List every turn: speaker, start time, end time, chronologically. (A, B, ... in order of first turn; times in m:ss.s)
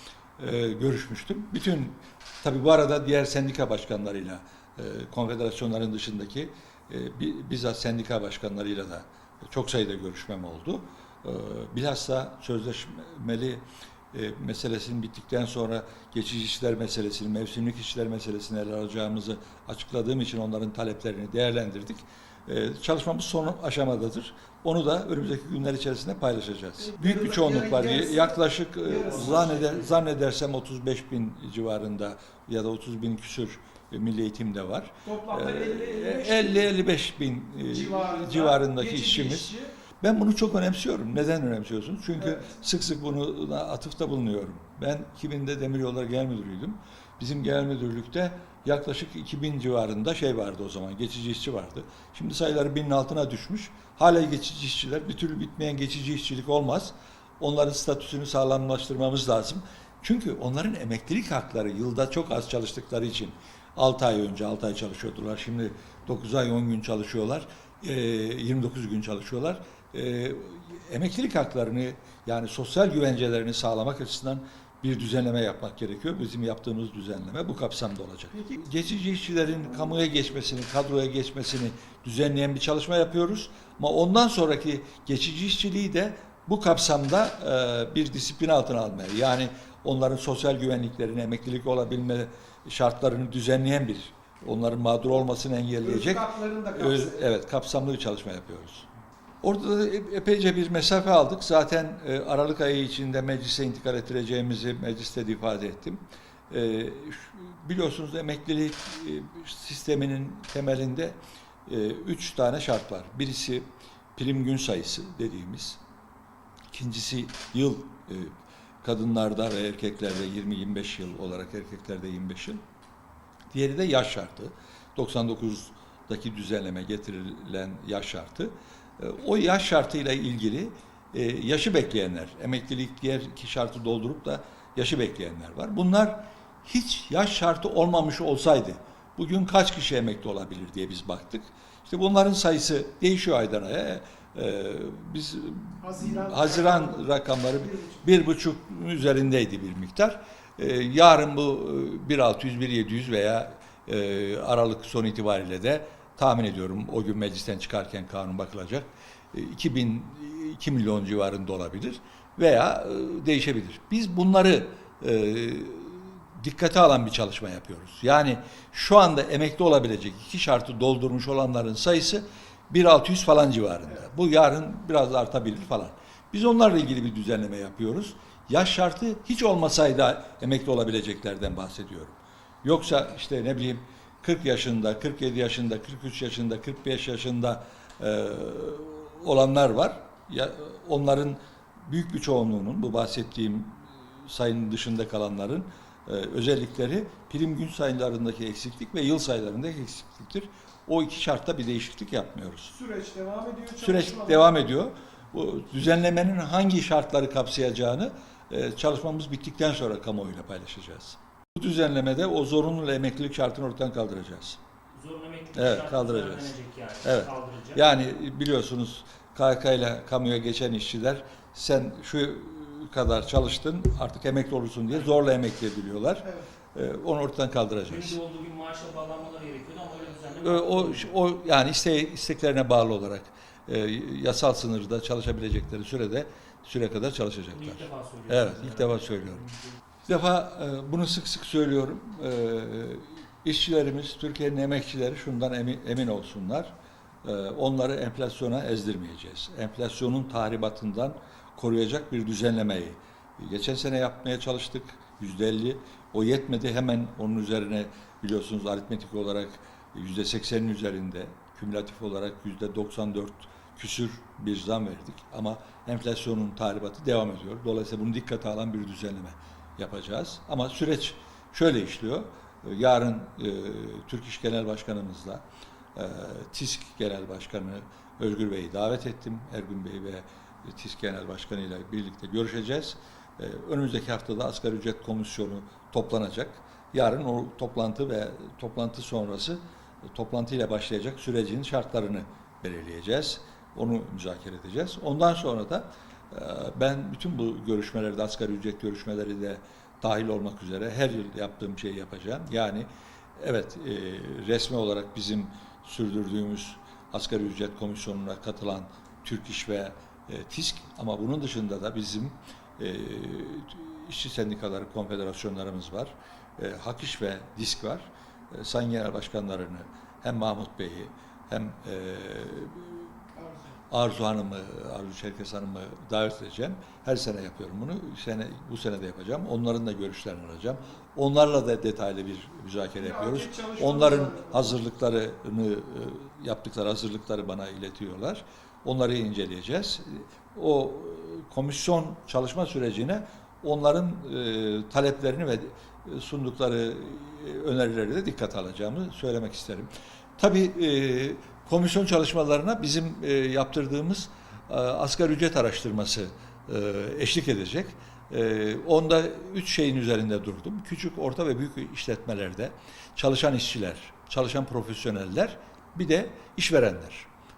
0:00.4-1:38.9 A
0:26.9-0:29.6 B
0:29.0-0:29.9 C
0:35.0-0:36.7 B
0:37.7-0:39.7 B
1:35.8-1:37.2 B
1:39.4-1:55.8 A
1:56.7-2:02.6 A
2:03.5-3:22.7 A
2:25.8-2:27.0 B
2:27.6-2:28.0 B
3:22.7-3:24.6 B
3:23.8-3:34.6 A
3:35.0-3:37.9 C
3:35.6-3:48.2 A
3:47.9-3:51.1 C
3:50.4-3:59.5 A
3:57.5-3:59.5 C
4:00.1-4:06.7 A
4:07.2-4:35.4 A
4:36.0-5:23.1 A
5:23.4-5:23.6 B
5:23.9-6:07.3 A
5:33.0-5:34.7 B